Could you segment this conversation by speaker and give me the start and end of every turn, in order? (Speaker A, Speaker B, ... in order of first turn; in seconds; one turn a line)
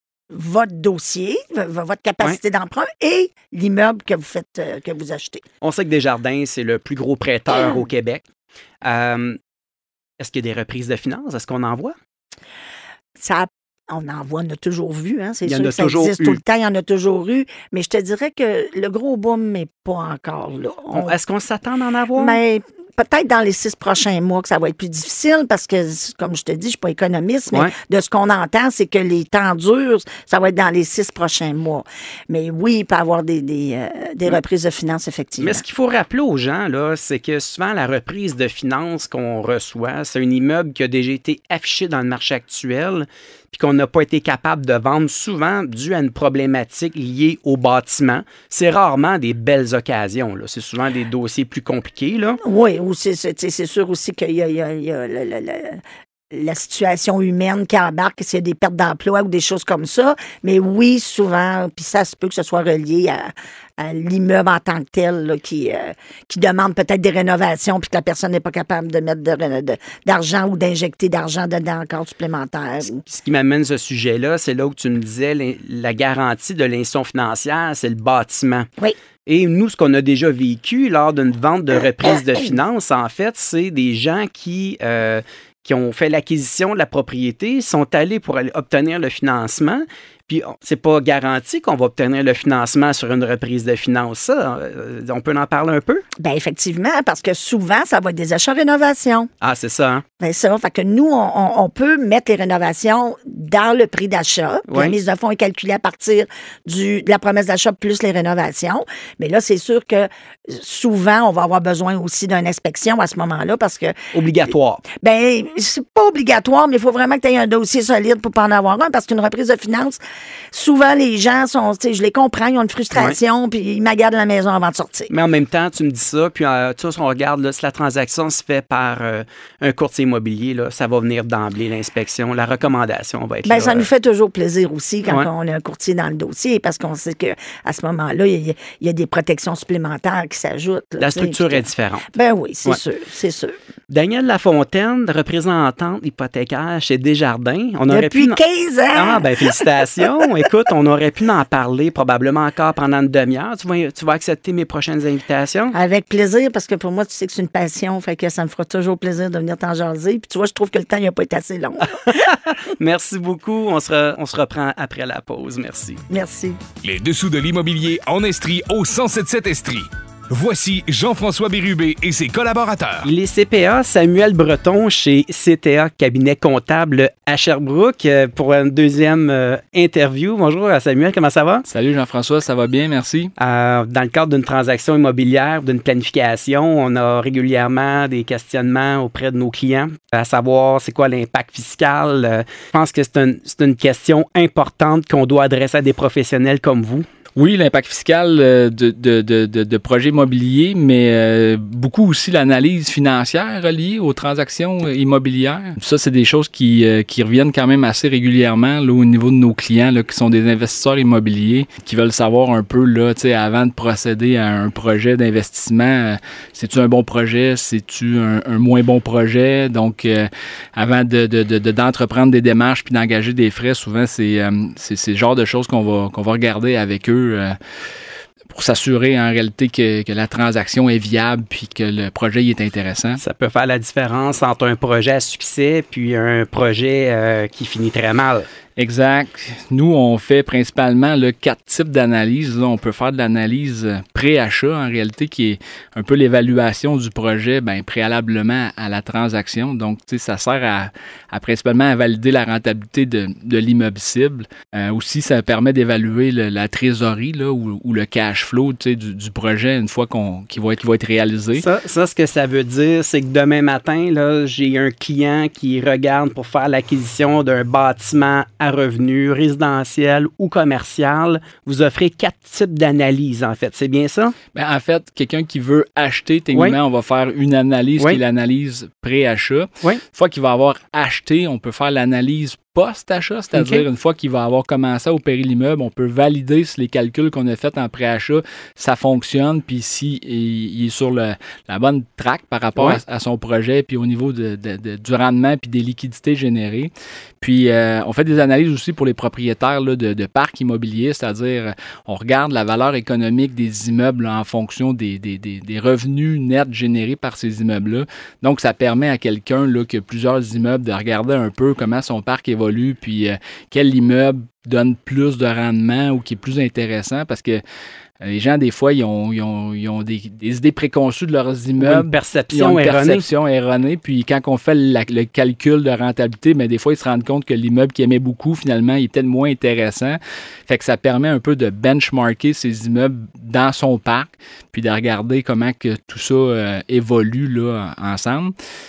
Speaker A: 0.3-5.4
Speaker B: 5.6-8.2
Speaker B: 8.8-9.4
Speaker B: 10.2-11.9
Speaker A: 13.2-21.1
Speaker B: 15.4-16.4
Speaker B: 20.9-22.4
Speaker A: 22.1-35.6
Speaker B: 35.4-52.4
Speaker A: 52.4-73.0
Speaker B: 72.9-78.7
Speaker B: 79.2-96.0
Speaker A: 96.2-99.3
Speaker B: 99.4-100.0
Speaker A: 100.2-114.0
Speaker B: 104.7-105.0
Speaker B: 114.1-114.8
Speaker A: 114.9-120.0
Speaker A: 120.5-125.1
Speaker B: 125.1-133.9
Speaker A: 133.4-143.5
Speaker B: 141.0-142.1
Speaker B: 143.9-148.4
Speaker A: 147.9-149.7
Speaker B: 148.9-155.7
Speaker A: 155.7-162.1
Speaker B: 162.0-166.0
Speaker A: 166.1-166.6
Speaker C: 166.8-173.1
Speaker B: 173.0-181.7
Speaker D: 181.7-183.3
Speaker B: 183.4-197.1
Speaker D: 197.3-227.6
Speaker D: 228.5-233.2
Speaker B: 233.2-238.5
Speaker D: 238.8-261.7
Speaker B: 261.6-274.4
Speaker D: 274.5-317.6
Speaker B: 283.5-283.8
Speaker D: 318.2-338.5
Speaker B: 321.8-323.3